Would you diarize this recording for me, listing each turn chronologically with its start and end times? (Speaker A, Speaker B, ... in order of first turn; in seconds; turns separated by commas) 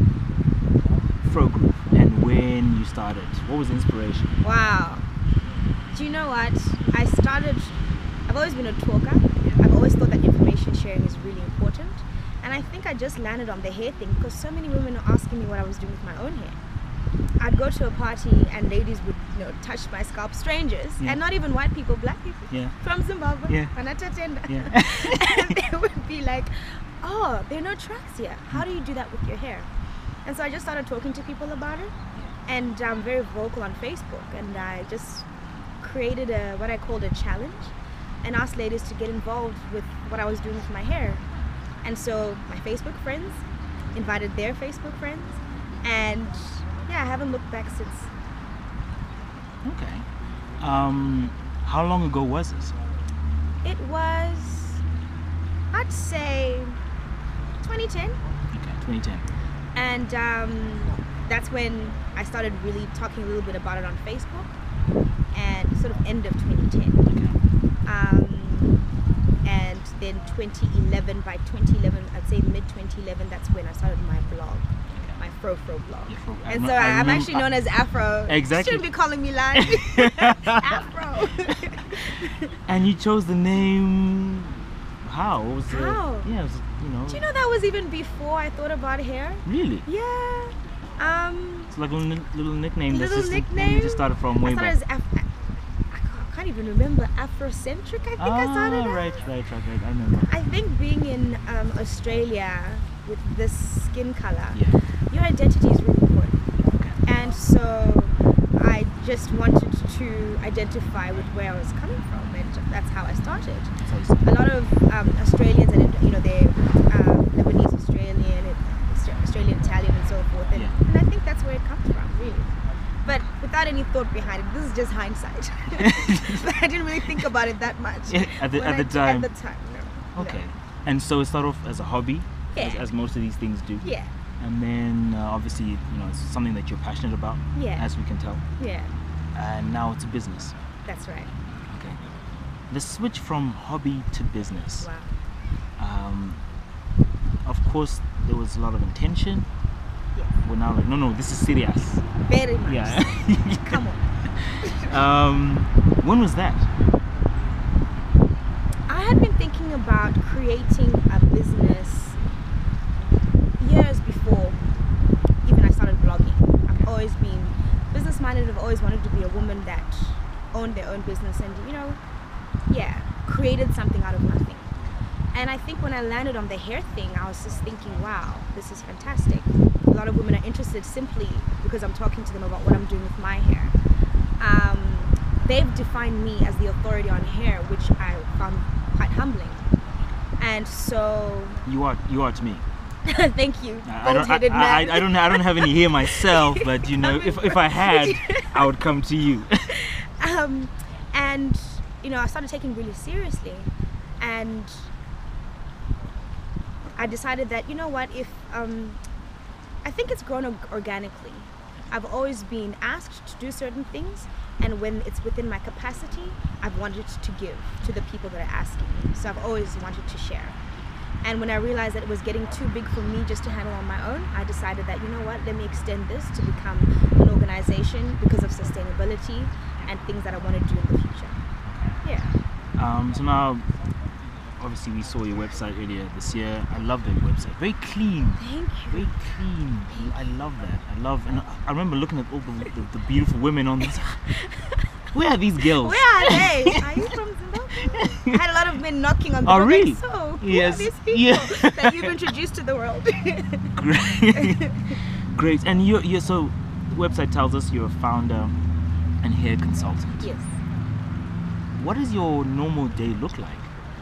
Speaker A: 1.2-4.3, Speaker B: 4.4-5.1, Speaker B: 5.9-16.6, Speaker B: 17.4-29.7, Speaker A: 22.5-22.8, Speaker A: 23.5-23.7, Speaker A: 24.5-25.5, Speaker B: 30.2-31.9, Speaker B: 32.5-35.3, Speaker B: 35.8-41.2, Speaker B: 41.8-48.1, Speaker A: 49.6-50.1, Speaker A: 50.6-52.8, Speaker B: 53.6-54.8, Speaker B: 55.7-56.8, Speaker B: 57.6-58.2, Speaker A: 58.5-59.3, Speaker B: 59.7-64.5, Speaker B: 65.3-67.1, Speaker A: 67.0-67.4, Speaker B: 67.8-68.9, Speaker B: 69.4-82.5, Speaker A: 74.9-75.2, Speaker A: 76.1-77.5, Speaker A: 78.3-78.8, Speaker A: 79.5-80.6, Speaker A: 82.7-87.2, Speaker B: 85.7-86.3, Speaker B: 87.1-91.7, Speaker A: 89.5-89.8, Speaker A: 91.7-94.8, Speaker B: 92.9-95.3, Speaker B: 95.9-99.2, Speaker A: 98.2-100.3, Speaker B: 100.3-106.4, Speaker A: 104.5-104.8, Speaker A: 106.7-107.0, Speaker B: 107.0-130.4, Speaker A: 113.8-114.3, Speaker A: 125.8-126.4, Speaker A: 128.1-129.3, Speaker A: 130.1-138.4, Speaker B: 132.5-132.9, Speaker B: 133.8-134.1, Speaker B: 137.5-137.8, Speaker B: 138.6-138.9, Speaker A: 139.3-140.5, Speaker B: 140.8-141.3, Speaker A: 141.7-142.0, Speaker A: 142.7-144.9, Speaker B: 144.8-145.1, Speaker A: 145.8-146.4, Speaker A: 147.4-149.5, Speaker A: 150.4-152.1, Speaker B: 152.3-154.0, Speaker A: 152.7-153.8, Speaker A: 154.4-156.7, Speaker B: 158.9-162.2, Speaker B: 163.6-164.6, Speaker B: 165.4-172.0, Speaker B: 172.7-174.7, Speaker A: 174.8-175.0, Speaker B: 175.3-183.8, Speaker B: 184.4-189.7, Speaker B: 190.4-191.6, Speaker A: 191.6-192.6, Speaker B: 193.1-198.6, Speaker A: 193.8-199.7, Speaker B: 199.7-204.9, Speaker B: 206.9-209.0, Speaker B: 209.8-220.6, Speaker B: 221.2-231.4, Speaker A: 231.7-232.0, Speaker B: 232.0-232.3, Speaker A: 232.8-233.7, Speaker A: 234.6-244.2, Speaker B: 238.4-239.1, Speaker B: 244.3-244.8, Speaker A: 245.1-246.8, Speaker B: 245.8-253.8, Speaker A: 249.4-252.1, Speaker A: 253.7-254.6, Speaker B: 254.3-254.9, Speaker A: 255.3-258.6, Speaker A: 259.2-260.3, Speaker B: 260.2-260.6, Speaker A: 261.8-263.7